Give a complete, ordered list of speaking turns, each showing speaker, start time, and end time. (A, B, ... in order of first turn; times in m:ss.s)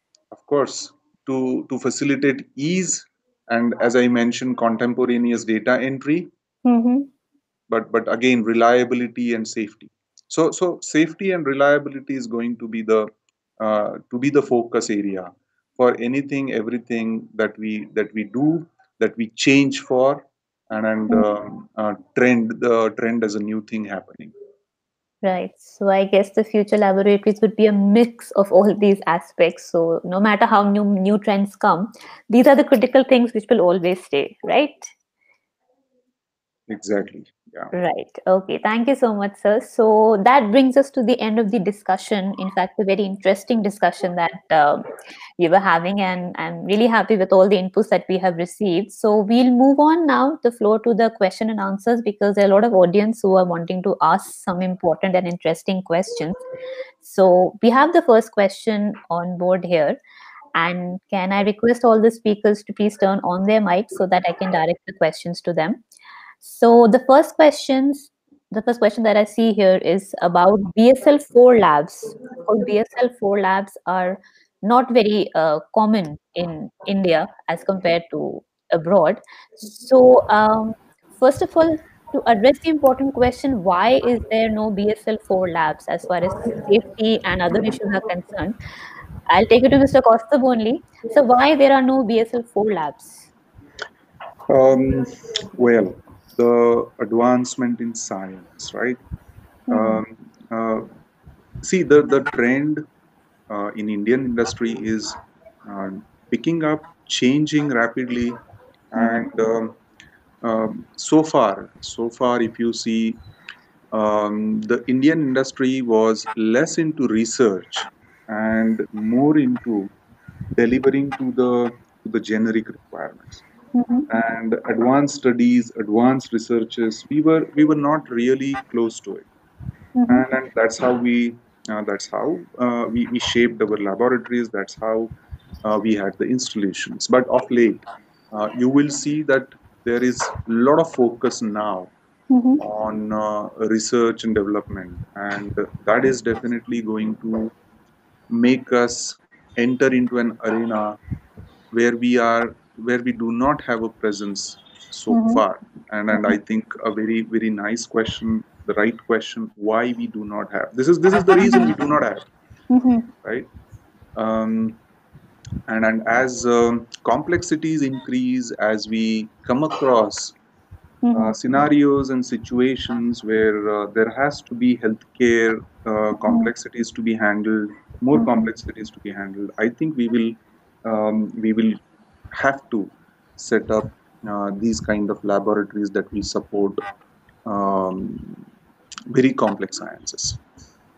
0:00.3-0:06.3 A
0:06.6-0:07.1 B
0:07.7-0:24.3 A
0:25.2-0:34.9 B
0:36.7-0:37.7 A
0:37.7-0:44.8 B
0:45.4-0:56.4 B
0:57.0-1:00.0 B
1:00.6-1:05.8 B
1:06.4-1:28.6 B
1:29.3-1:33.3 B
1:34.5-1:39.0 A
1:39.7-1:40.0 B
1:39.7-1:40.9 A
1:41.6-1:42.8 A
1:43.5-1:48.4 A
1:49.0-1:49.8 A
1:49.0-1:49.3 B
1:50.4-1:53.2 A
1:53.9-1:59.9 A
2:00.6-2:03.4 A
2:03.8-2:04.1 B
2:04.1-2:09.3 A
2:10.0-2:10.2 B
2:10.1-2:15.1 A
2:15.6-2:21.9 A
2:22.3-2:22.6 B
2:22.6-2:27.5 A
2:28.3-2:31.0 A
2:31.7-2:42.3 A
2:35.1-2:35.4 B
2:36.1-2:36.4 B
2:41.4-2:41.7 B
2:42.7-2:43.1 B
2:44.2-2:44.8 A
2:45.7-2:50.4 A
2:51.0-2:51.3 B
2:51.1-3:01.8 A
2:58.2-2:58.5 B
3:02.3-3:06.8 A
3:07.5-3:08.4 A
3:09.1-3:10.4 A